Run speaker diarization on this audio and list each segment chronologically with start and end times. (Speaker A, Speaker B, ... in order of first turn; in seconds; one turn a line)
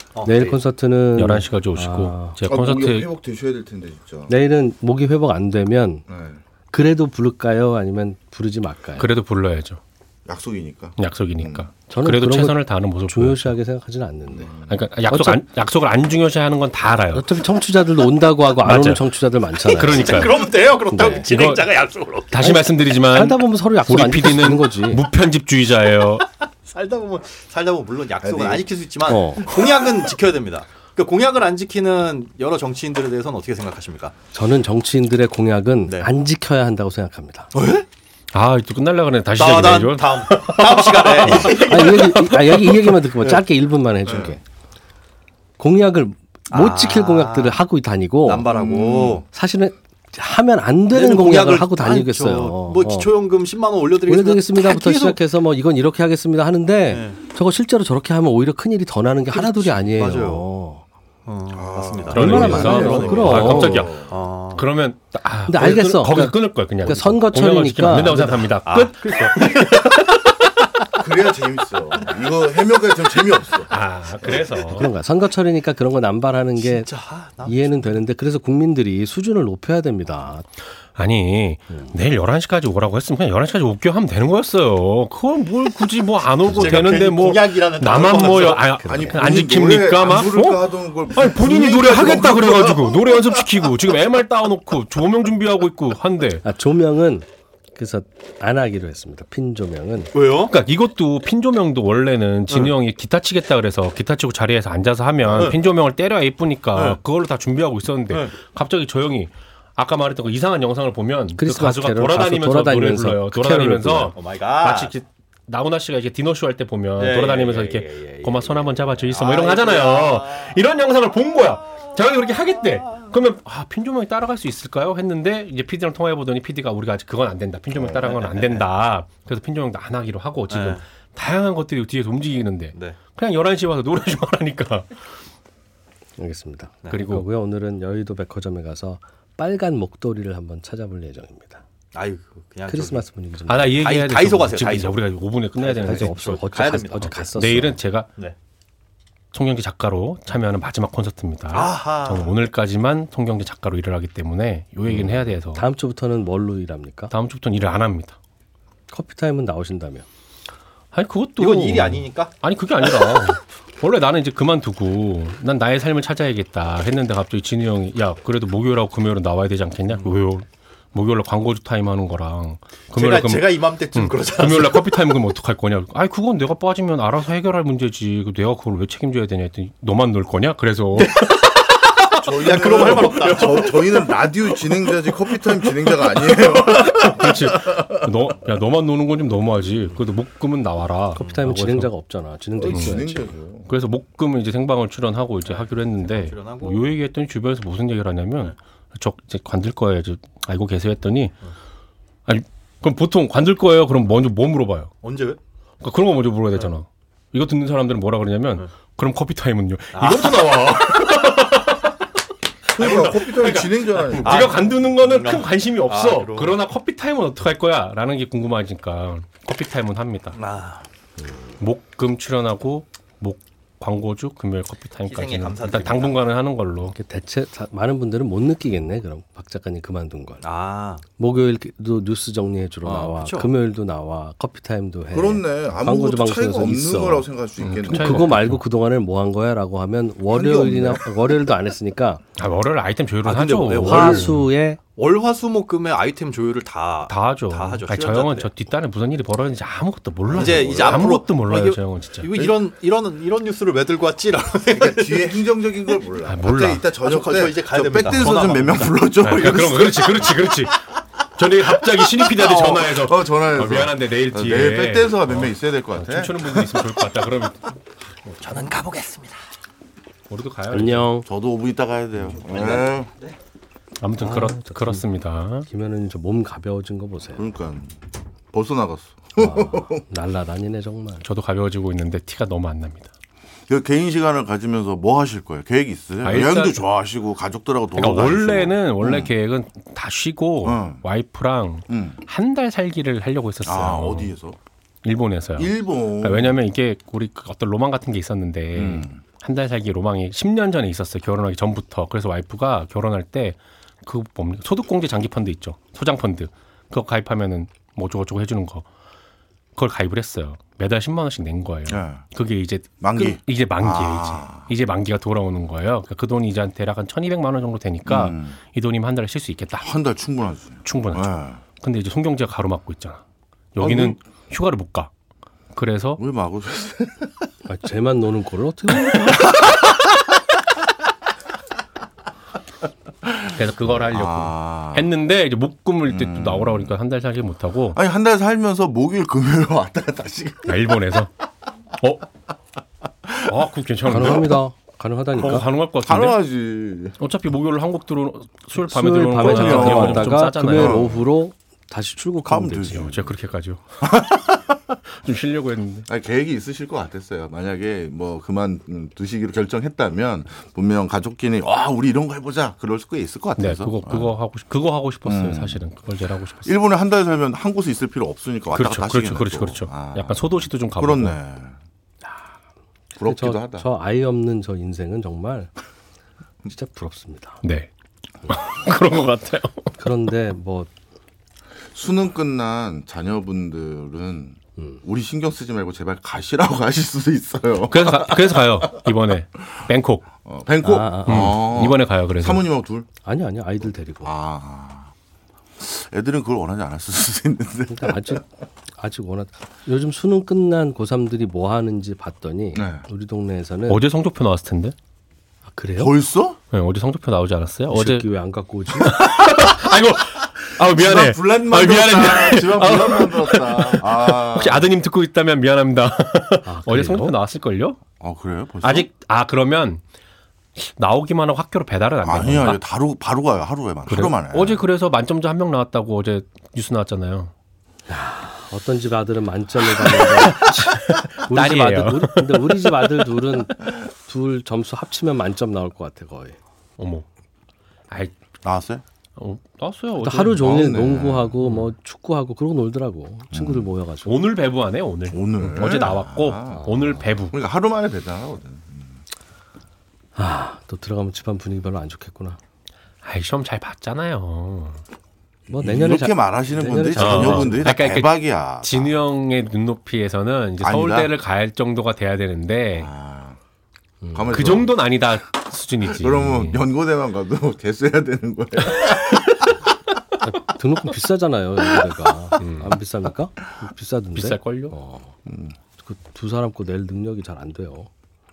Speaker A: 0.1-0.6
Speaker B: 0.2-2.4
Speaker C: 1.1-3.1
Speaker D: 2.4-4.3
Speaker B: 4.3-6.0
Speaker D: 6.1-6.4
Speaker B: 6.7-9.1
Speaker C: 9.0-9.8
Speaker D: 10.2-11.7
Speaker C: 11.0-13.5
Speaker B: 11.9-14.5
Speaker D: 14.3-14.9
Speaker C: 14.7-17.4
Speaker B: 15.1-15.4
Speaker B: 17.1-21.3
Speaker C: 18.6-20.5
Speaker A: 19.7-22.4
Speaker C: 21.0-26.2
Speaker B: 22.4-25.1
Speaker A: 26.6-34.1
Speaker D: 28.2-28.6
Speaker B: 29.1-29.5
Speaker B: 34.3-37.5
Speaker A: 37.5-37.8
Speaker C: 38.3-42.4
Speaker A: 39.4-43.4
Speaker B: 41.2-44.4
Speaker D: 44.0-44.4
Speaker B: 45.6-48.5
Speaker A: 46.5-47.6
Speaker A: 48.2-49.2
Speaker D: 48.5-49.2
Speaker B: 49.3-53.1
Speaker A: 50.9-55.2
Speaker B: 54.0-60.8
Speaker A: 56.9-57.2
Speaker A: 59.3-60.5
Speaker A: 61.2-64.7
Speaker D: 61.5-64.2
Speaker C: 62.1-70.3
Speaker B: 62.1-63.9
Speaker B: 65.5-68.4
Speaker A: 68.0-70.0
Speaker D: 70.9-74.5
Speaker C: 73.7-74.9
Speaker B: 74.7-76.9
Speaker A: 76.5-78.0
Speaker B: 77.4-80.5
Speaker C: 81.0-96.4
Speaker B: 81.7-81.9
Speaker B: 86.5-87.0
Speaker A: 86.5-88.7
Speaker B: 88.8-89.2
Speaker D: 88.8-93.3
Speaker B: 96.4-100.1
Speaker A: 100.1-100.5
Speaker C: 100.4-135.1
Speaker A: 102.5-102.7
Speaker B: 111.4-114.1
Speaker A: 114.1-114.9
Speaker A: 117.0-120.5
Speaker A: 127.8-128.7
Speaker A: 130.5-130.8
Speaker A: 132.7-133.0
Speaker B: 136.2-141.6
Speaker C: 136.9-137.2
Speaker A: 141.9-143.0
Speaker B: 142.7-143.8
Speaker C: 143.5-148.1
Speaker A: 143.8-145.0
Speaker A: 145.5-147.3
Speaker B: 145.8-147.8
Speaker C: 149.3-155.7
Speaker A: 151.5-152.3
Speaker B: 154.9-157.1
Speaker C: 157.1-158.2
Speaker B: 158.9-160.1
Speaker C: 160.9-181.2
Speaker A: 161.4-162.3
Speaker A: 172.9-175.0
Speaker A: 181.0-184.1
Speaker D: 182.2-187.6
Speaker C: 186.3-191.9
Speaker B: 191.1-193.3
Speaker D: 192.6-193.7
Speaker C: 192.7-193.0
Speaker C: 193.6-201.4
Speaker A: 195.4-196.9
Speaker C: 202.2-204.9
Speaker A: 205.0-205.4
Speaker C: 205.8-212.0
Speaker A: 209.9-210.6
Speaker D: 212.7-214.6
Speaker C: 212.7-220.4
Speaker A: 214.2-216.6
Speaker A: 220.3-220.9
Speaker C: 221.6-226.9
Speaker A: 225.1-226.2
Speaker B: 226.9-230.4
Speaker A: 230.4-231.0
Speaker B: 231.2-237.3
Speaker A: 232.8-233.5
Speaker D: 235.1-238.4
Speaker C: 237.6-238.6
Speaker B: 237.9-242.2
Speaker D: 240.3-241.1
Speaker C: 242.3-244.5
Speaker A: 243.2-244.3
Speaker B: 243.8-244.8
Speaker A: 244.9-248.5
Speaker C: 247.1-252.3
Speaker D: 250.3-251.2
Speaker A: 250.3-256.0
Speaker D: 252.3-252.7
Speaker D: 254.7-260.7
Speaker C: 256.2-256.9
Speaker A: 257.0-259.0
Speaker C: 259.2-268.4
Speaker D: 262.2-266.7
Speaker A: 268.4-269.4
Speaker C: 270.3-271.1
Speaker B: 270.7-271.3
Speaker D: 271.2-273.1
Speaker A: 272.4-273.3
Speaker C: 274.0-275.7
Speaker A: 274.2-274.5
Speaker B: 274.3-275.0
Speaker B: 275.7-277.4
Speaker D: 277.4-278.0
Speaker D: 278.5-280.0
Speaker B: 279.3-281.2
Speaker C: 281.2-283.1
Speaker D: 283.7-289.3
Speaker C: 286.2-286.8
Speaker C: 287.9-294.3
Speaker D: 290.6-291.1
Speaker D: 291.9-292.2
Speaker D: 293.6-294.6
Speaker C: 295.0-308.9
Speaker D: 295.6-296.6
Speaker D: 298.7-299.2
Speaker C: 309.8-319.9
Speaker D: 311.9-312.3
Speaker D: 313.0-314.7
Speaker D: 318.1-318.6
Speaker D: 319.8-321.6
Speaker C: 320.8-323.2
Speaker C: 323.7-325.1
Speaker D: 323.8-324.2
Speaker C: 325.7-326.2
Speaker D: 326.2-327.3
Speaker B: 327.7-329.5
Speaker C: 333.5-338.0
Speaker D: 333.9-335.1
Speaker D: 336.1-336.9
Speaker D: 337.9-341.0
Speaker C: 340.6-341.3
Speaker C: 342.0-342.2
Speaker C: 343.4-344.6
Speaker B: 344.0-345.7
Speaker D: 344.1-344.6
Speaker C: 345.3-346.4
Speaker D: 346.0-347.2
Speaker C: 347.2-351.1
Speaker B: 348.7-353.1
Speaker D: 349.3-351.3
Speaker D: 352.4-353.4
Speaker C: 352.9-354.2
Speaker D: 354.0-354.8
Speaker C: 355.1-356.1
Speaker D: 356.1-364.3
Speaker C: 363.6-366.7
Speaker D: 365.2-365.9
Speaker D: 366.6-371.8
Speaker C: 368.7-371.4
Speaker B: 372.2-372.5
Speaker D: 373.2-373.9
Speaker B: 373.2-375.7
Speaker B: 376.6-377.6
Speaker C: 377.6-377.9
Speaker C: 378.4-380.0
Speaker B: 380.0-380.9
Speaker D: 381.9-388.9
Speaker C: 387.8-390.3
Speaker D: 390.4-393.1
Speaker B: 390.8-391.5
Speaker C: 391.2-392.6
Speaker B: 393.2-394.3
Speaker D: 394.2-395.1
Speaker D: 395.8-398.4
Speaker B: 397.9-398.4
Speaker B: 399.0-404.0
Speaker D: 402.7-403.1
Speaker C: 403.9-404.9
Speaker B: 405.7-406.1
Speaker D: 406.0-406.6
Speaker C: 406.7-408.3
Speaker B: 407.9-409.2
Speaker C: 408.9-418.0
Speaker D: 410.8-414.9
Speaker B: 416.6-417.4
Speaker D: 418.2-419.1
Speaker C: 418.8-420.0
Speaker C: 420.8-422.8
Speaker D: 422.2-424.8
Speaker C: 424.1-427.5
Speaker B: 428.1-436.6
Speaker C: 429.8-433.2
Speaker C: 437.0-437.2
Speaker D: 438.6-439.0
Speaker C: 439.4-440.7
Speaker B: 440.2-444.4
Speaker D: 440.6-441.6
Speaker C: 441.6-441.9
Speaker D: 443.5-443.9
Speaker C: 444.2-447.6
Speaker D: 445.3-449.2
Speaker B: 446.7-447.3
Speaker B: 450.3-452.6
Speaker C: 453.2-455.0
Speaker D: 455.7-459.2
Speaker B: 455.7-457.9
Speaker C: 457.1-463.1
Speaker D: 460.8-461.3
Speaker D: 463.0-463.6
Speaker B: 464.2-464.7
Speaker D: 464.3-465.0
Speaker C: 464.5-466.8
Speaker D: 466.0-469.6
Speaker B: 470.4-475.3
Speaker C: 472.6-472.9
Speaker C: 474.3-474.9
Speaker D: 475.4-475.7
Speaker B: 476.0-478.1